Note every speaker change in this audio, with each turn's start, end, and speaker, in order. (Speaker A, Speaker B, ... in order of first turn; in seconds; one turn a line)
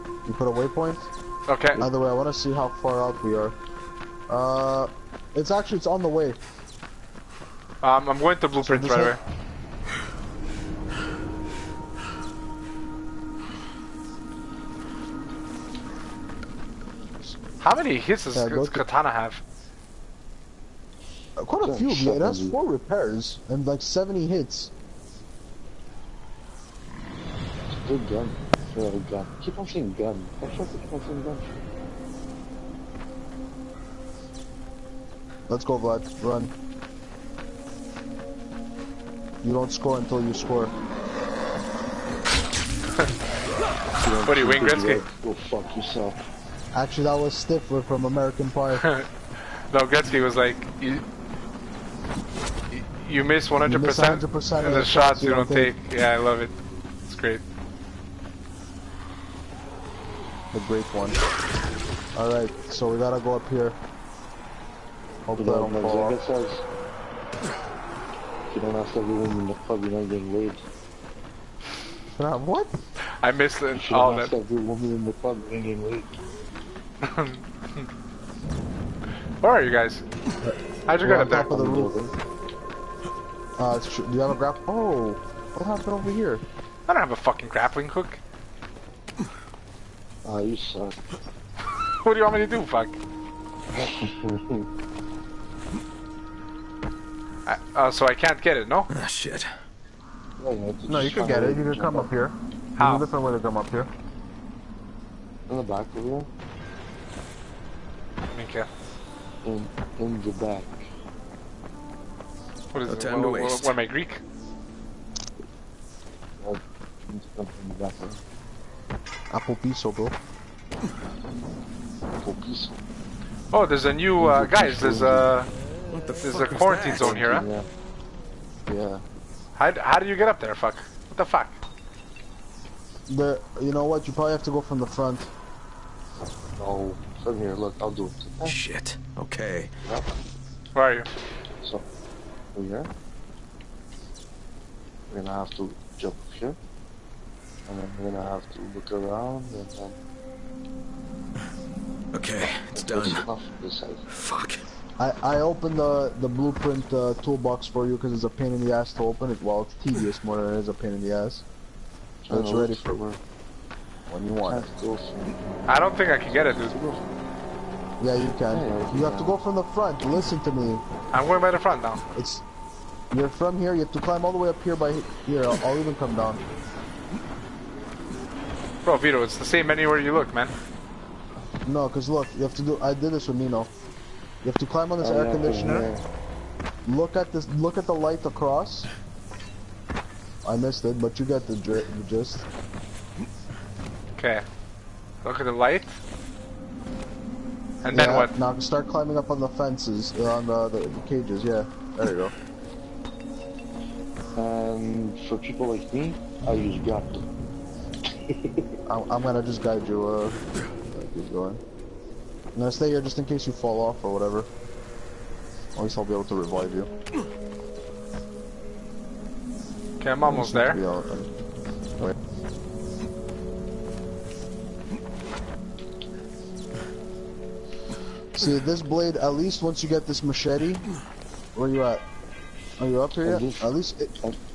Speaker A: 0.3-1.1
Speaker B: 1.5-1.9
Speaker A: 1.8-3.6
Speaker A: 4.3-6.4
Speaker B: 7.8-9.2
Speaker A: 8.6-9.2
Speaker B: 17.6-19.4
Speaker A: 18.3-18.9
Speaker A: 21.4-24.7
Speaker C: 21.6-22.6
Speaker C: 27.7-31.6
Speaker A: 35.5-36.5
Speaker A: 39.4-40.7
Speaker C: 44.0-46.2
Speaker B: 44.3-45.0
Speaker A: 46.7-48.9
Speaker B: 48.8-49.1
Speaker B: 49.7-51.0
Speaker B: 52.7-56.5
Speaker A: 53.6-55.7
Speaker B: 57.1-57.4
Speaker A: 60.5-61.2
Speaker A: 62.1-63.8
Speaker A: 65.3-66.2
Speaker C: 65.4-66.6
Speaker C: 68.5-70.6
Speaker A: 72.2-72.7
Speaker B: 73.2-74.3
Speaker C: 73.8-76.1
Speaker B: 77.0-77.9
Speaker B: 79.4-80.0
Speaker A: 80.4-82.1
Speaker B: 80.9-81.5
Speaker C: 81.5-82.1
Speaker A: 83.6-86.4
Speaker B: 86.9-88.2
Speaker C: 90.2-91.0
Speaker B: 92.0-93.0
Speaker C: 93.8-94.7
Speaker B: 97.5-98.9
Speaker D: 98.9-99.5
Speaker C: 100.4-102.1
Speaker A: 100.9-103.9
Speaker B: 102.8-103.1
Speaker C: 105.5-106.3
Speaker B: 108.3-108.7
Speaker C: 109.4-110.9
Speaker B: 112.7-114.2
Speaker D: 112.9-113.8
Speaker C: 116.4-118.2
Speaker A: 119.3-120.2
Speaker C: 122.2-122.7
Speaker B: 123.5-125.5
Speaker A: 124.2-125.3
Speaker D: 125.9-127.5
Speaker B: 126.2-127.5
Speaker C: 127.1-127.7
Speaker A: 128.7-129.0
Speaker B: 129.6-131.6
Speaker A: 133.1-135.3
Speaker C: 136.6-138.6
Speaker D: 138.4-139.7
Speaker B: 140.8-141.1
Speaker C: 142.6-142.9
Speaker C: 145.1-146.6
Speaker C: 147.7-150.0
Speaker D: 152.1-153.3
Speaker C: 152.8-154.1
Speaker D: 154.1-154.6
Speaker A: 155.0-161.4
Speaker C: 162.2-163.2
Speaker A: 162.3-162.9
Speaker A: 164.1-164.7
Speaker C: 164.4-167.1
Speaker B: 165.7-166.8
Speaker A: 168.0-170.8
Speaker C: 168.5-169.4
Speaker B: 171.1-172.0
Speaker A: 172.1-172.4
Speaker A: 173.1-176.4
Speaker B: 178.8-180.5
Speaker A: 181.7-183.7
Speaker A: 184.4-185.9
Speaker C: 185.0-186.0
Speaker A: 186.8-188.9
Speaker A: 190.4-192.5
Speaker B: 194.2-194.5
Speaker B: 195.2-196.0
Speaker B: 197.8-198.3
Speaker A: 197.9-202.3
Speaker C: 204.4-207.2
Speaker C: 208.1-208.8
Speaker A: 208.9-211.6
Speaker A: 212.5-214.5
Speaker A: 215.8-216.9
Speaker B: 220.0-220.8
Speaker A: 220.3-221.3
Speaker A: 228.4-230.9
Speaker A: 231.6-232.0
Speaker A: 232.8-234.2
Speaker C: 233.2-234.4